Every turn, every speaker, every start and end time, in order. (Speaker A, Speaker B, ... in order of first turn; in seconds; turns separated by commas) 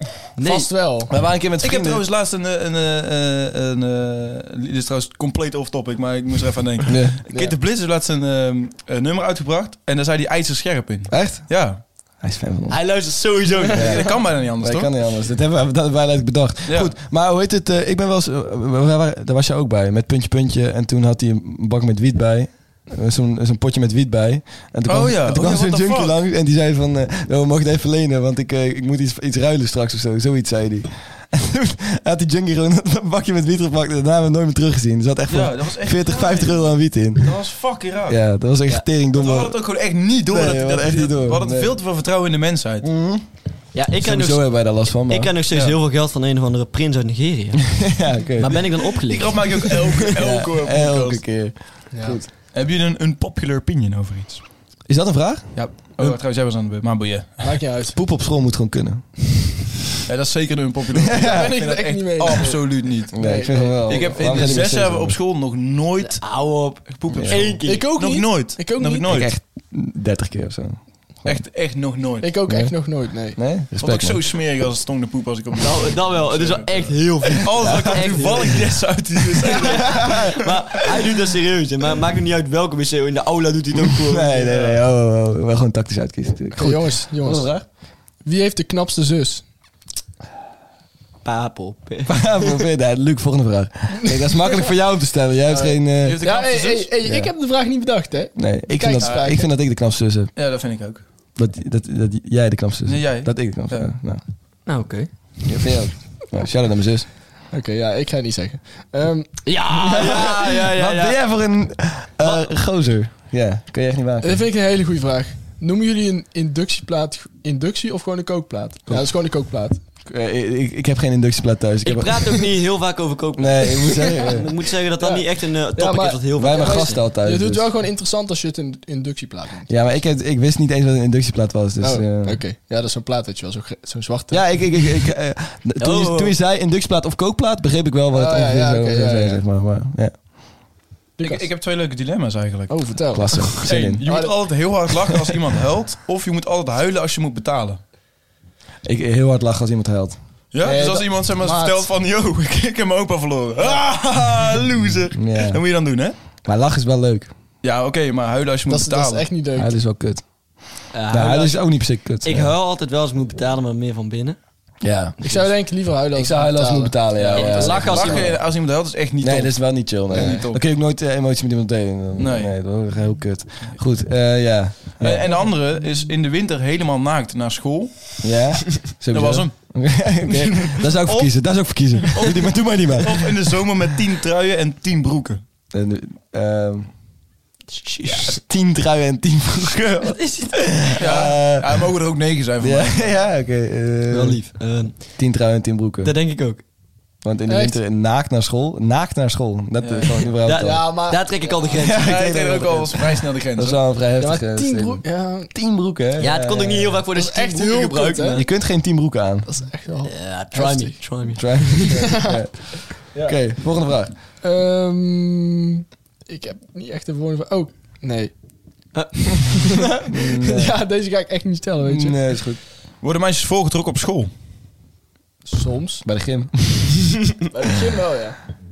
Speaker A: 0.2-0.7, Speaker B: 0.4-1.1, Speaker C: 1.1-2.0, Speaker D: 1.6-11.8, Speaker C: 6.9-7.2, Speaker C: 11.1-37.4, Speaker A: 12.7-14.1, Speaker D: 13.7-15.2, Speaker D: 16.7-16.9, Speaker D: 24.9-26.2, Speaker D: 35.3-38.2, Speaker C: 38.1-39.6, Speaker D: 39.1-42.9, Speaker C: 40.3-41.8, Speaker C: 42.8-43.3, Speaker A: 43.7-49.4, Speaker C: 44.0-45.3, Speaker D: 45.5-45.8, Speaker C: 47.8-48.8, Speaker D: 49.0-51.3, Speaker C: 50.1-52.3, Speaker B: 51.9-52.2, Speaker D: 52.5-54.5, Speaker C: 54.9-56.2, Speaker D: 55.5-57.6, Speaker B: 57.4-58.0, Speaker C: 58.0-59.1, Speaker D: 60.0-69.3, Speaker C: 61.0-61.6, Speaker B: 61.2-64.6, Speaker C: 63.1-65.2, Speaker A: 66.0-67.9, Speaker C: 67.1-67.4, Speaker B: 67.6-69.1, Speaker C: 69.1-71.5, Speaker D: 71.2-72.3, Speaker B: 72.2-73.5, Speaker C: 72.5-74.2, Speaker D: 73.8-80.5, Speaker A: 75.6-78.8, Speaker A: 79.5-84.7, Speaker C: 79.7-80.3, Speaker C: 83.8-87.7, Speaker D: 84.5-84.8, Speaker B: 86.6-87.6, Speaker B: 88.2-89.5, Speaker A: 91.2-92.2, Speaker C: 92.1-96.2, Speaker B: 95.5-99.5, Speaker D: 96.0-96.9, Speaker C: 97.0-97.3, Speaker C: 98.3-100.3, Speaker D: 100.3-101.0, Speaker C: 101.4-104.2, Speaker D: 102.9-103.9, Speaker A: 104.7-105.1, Speaker C: 105.5-107.1, Speaker B: 107.5-109.4, Speaker A: 109.5-111.2, Speaker C: 109.7-114.5, Speaker B: 114.2-119.8, Speaker C: 120.0-122.5, Speaker A: 121.8-127.0, Speaker C: 123.4-124.5, Speaker B: 125.0-129.7, Speaker C: 126.4-127.7, Speaker C: 129.7-132.4, Speaker B: 131.8-134.6, Speaker C: 134.3-140.2, Speaker A: 135.8-136.4, Speaker B: 138.1-139.4, Speaker B: 141.2-141.4, Speaker D: 141.2-147.8, Speaker B: 142.7-144.3, Speaker C: 143.1-144.0, Speaker C: 148.8-150.2, Speaker D: 150.5-156.2, Speaker B: 150.6-151.8, Speaker C: 155.2-155.6, Speaker C: 156.4-157.3, Speaker D: 157.6-159.3, Speaker B: 158.7-159.7, Speaker C: 159.6-160.2, Speaker A: 160.9-164.4, Speaker C: 161.1-162.5, Speaker C: 164.8-165.2, Speaker B: 165.2-167.8, Speaker C: 166.1-168.5, Speaker D: 167.2-170.6, Speaker A: 167.2-168.3, Speaker C: 169.2-175.3, Speaker D: 172.2-172.8, Speaker D: 175.0-178.2, Speaker C: 178.2-183.5, Speaker D: 179.1-185.4, Speaker C: 185.7-186.9, Speaker A: 187.7-188.4, Speaker C: 188.1-191.9, Speaker A: 190.1-190.5, Speaker D: 190.9-193.2, Speaker C: 192.6-194.5, Speaker A: 194.1-195.2, Speaker C: 195.2-196.1, Speaker A: 196.0-196.6, Speaker C: 197.2-201.2, Speaker B: 197.5-197.8, Speaker D: 199.8-200.3, Speaker A: 200.4-202.1, Speaker B: 200.6-201.8, Speaker C: 201.7-207.0, Speaker D: 202.0-203.9, Speaker B: 204.2-205.5, Speaker A: 206.2-208.5, Speaker B: 207.1-208.4, Speaker C: 208.3-209.5, Speaker B: 209.5-212.4, Speaker A: 210.1-212.0, Speaker C: 211.3-214.1, Speaker B: 213.1-213.4, Speaker B: 214.4-218.3, Speaker B: 219.3-222.2, Speaker C: 220.0-220.8, Speaker C: 221.8-222.6, Speaker D: 223.0-224.3, Speaker B: 225.4-226.1, Speaker C: 226.1-226.9, Speaker B: 227.5-228.4